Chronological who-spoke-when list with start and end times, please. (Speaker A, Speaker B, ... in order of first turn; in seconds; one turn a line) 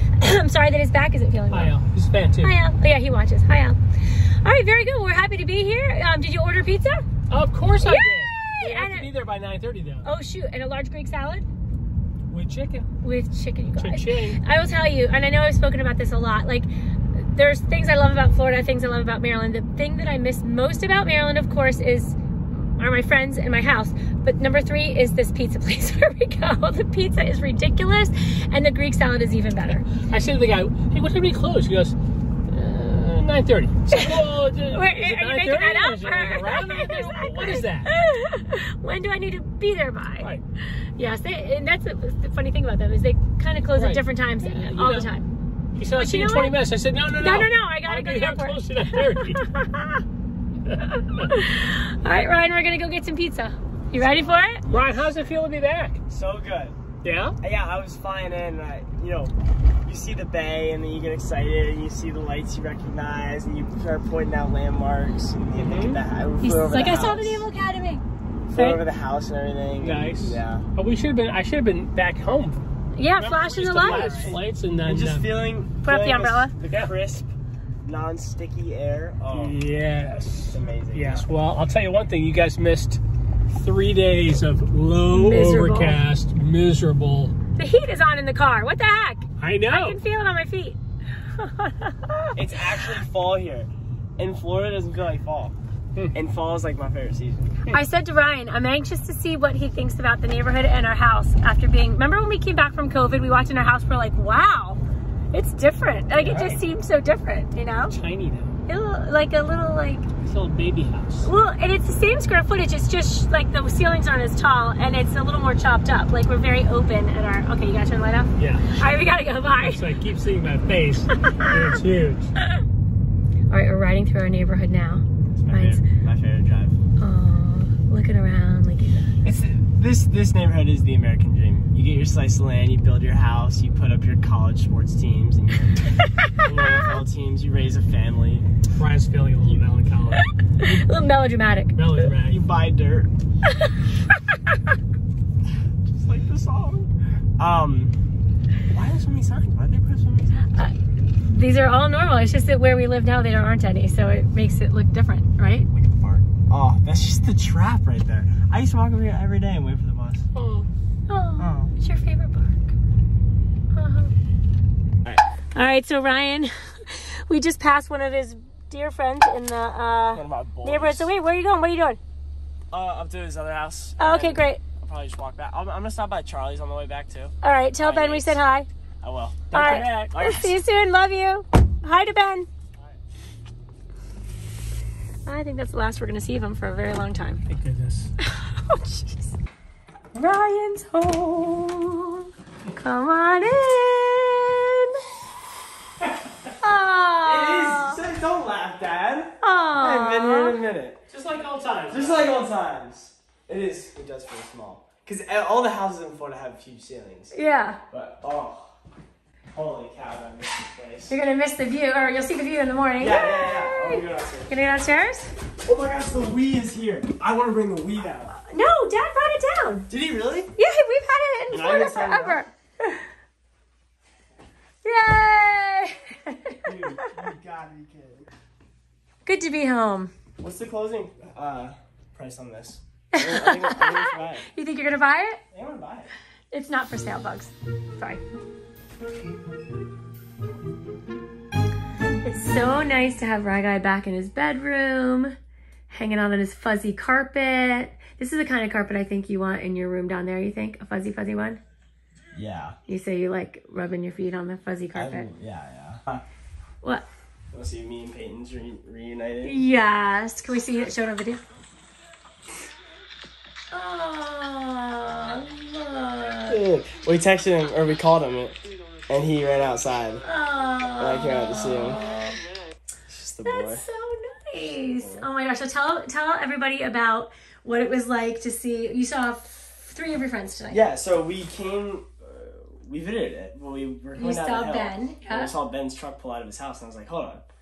Speaker A: 0.2-1.7
Speaker B: 1.5-2.5
Speaker A: 2.4-7.1
Speaker B: 7.3-10.1
Speaker A: 7.8-9.1
Speaker A: 10.0-11.5
Speaker B: 12.3-12.9
Speaker A: 13.0-29.9
Speaker B: 13.8-14.4
Speaker B: 30.0-31.9
Speaker B: 32.5-37.9
Speaker A: 33.9-45.3
Speaker B: 43.8-45.1
Speaker B: 45.8-49.5
Speaker A: 46.0-46.6
Speaker A: 47.1-49.9
Speaker B: 50.7-51.3
Speaker A: 51.2-54.7
Speaker C: 54.6-55.0
Speaker B: 54.7-56.0
Speaker C: 56.1-56.8
Speaker B: 57.0-57.4
Speaker C: 57.4-59.3
Speaker C: 59.9-67.5
Speaker B: 65.6-66.0
Speaker A: 66.4-68.8
Speaker C: 68.5-70.7
Speaker B: 69.8-72.6
Speaker A: 73.0-74.4
Speaker B: 73.1-75.3
Speaker C: 73.9-77.3
Speaker A: 75.8-76.5
Speaker B: 76.7-76.9
Speaker C: 77.8-79.6
Speaker B: 79.3-87.3
Speaker C: 80.4-81.3
Speaker A: 85.1-86.0
Speaker A: 87.6-92.9
Speaker B: 89.4-90.0
Speaker C: 92.3-95.6
Speaker C: 96.1-97.6
Speaker A: 97.7-104.8
Speaker A: 105.3-108.0
Speaker B: 106.2-106.6
Speaker B: 107.9-108.6
Speaker A: 108.7-110.1
Speaker B: 110.2-111.3
Speaker A: 111.2-119.9
Speaker B: 118.4-118.8
Speaker B: 119.5-122.3
Speaker A: 121.2-121.8
Speaker A: 123.5-125.8
Speaker C: 125.3-126.8
Speaker A: 127.0-129.2
Speaker C: 129.2-135.8
Speaker C: 136.4-138.5
Speaker A: 136.5-136.9
Speaker B: 138.8-140.8
Speaker A: 140.6-142.1
Speaker B: 141.8-142.4
Speaker C: 142.2-143.1
Speaker A: 143.5-144.6
Speaker C: 145.8-148.0
Speaker C: 148.7-150.7
Speaker A: 150.5-155.7
Speaker C: 155.7-160.3
Speaker B: 160.3-160.7
Speaker A: 161.1-162.8
Speaker C: 161.4-161.7
Speaker A: 163.7-164.1
Speaker A: 165.5-172.0
Speaker C: 170.1-171.1
Speaker C: 172.7-178.4
Speaker A: 174.0-174.6
Speaker A: 177.4-178.7
Speaker C: 179.0-180.6
Speaker A: 179.5-182.5
Speaker B: 179.6-180.0
Speaker A: 185.3-187.4
Speaker B: 187.5-188.1
Speaker A: 188.2-189.4
Speaker A: 190.1-195.0
Speaker A: 196.6-198.0
Speaker C: 197.2-201.1
Speaker A: 199.4-200.6
Speaker B: 201.1-202.3
Speaker C: 201.9-207.3
Speaker A: 207.3-207.8
Speaker C: 207.9-208.8
Speaker C: 209.5-211.2
Speaker A: 211.1-215.3
Speaker C: 213.0-214.5
Speaker C: 215.6-218.4
Speaker A: 218.4-219.9
Speaker C: 219.9-220.5
Speaker A: 220.6-223.1
Speaker C: 221.5-222.4
Speaker A: 224.8-227.0
Speaker C: 226.6-228.3
Speaker A: 229.2-230.1
Speaker C: 230.4-234.5
Speaker A: 233.1-235.4
Speaker C: 235.5-236.1
Speaker A: 236.5-238.2
Speaker A: 242.2-245.4
Speaker A: 245.9-251.6
Speaker C: 252.3-252.8
Speaker A: 252.9-255.3
Speaker C: 254.9-256.2
Speaker C: 257.5-259.6
Speaker A: 259.4-261.4
Speaker A: 263.7-266.6
Speaker C: 266.5-268.6
Speaker C: 269.1-270.2
Speaker A: 270.2-272.4
Speaker C: 271.0-272.0
Speaker C: 273.1-273.8
Speaker A: 273.4-280.8
Speaker C: 274.8-275.3
Speaker C: 280.7-287.4
Speaker A: 284.2-285.5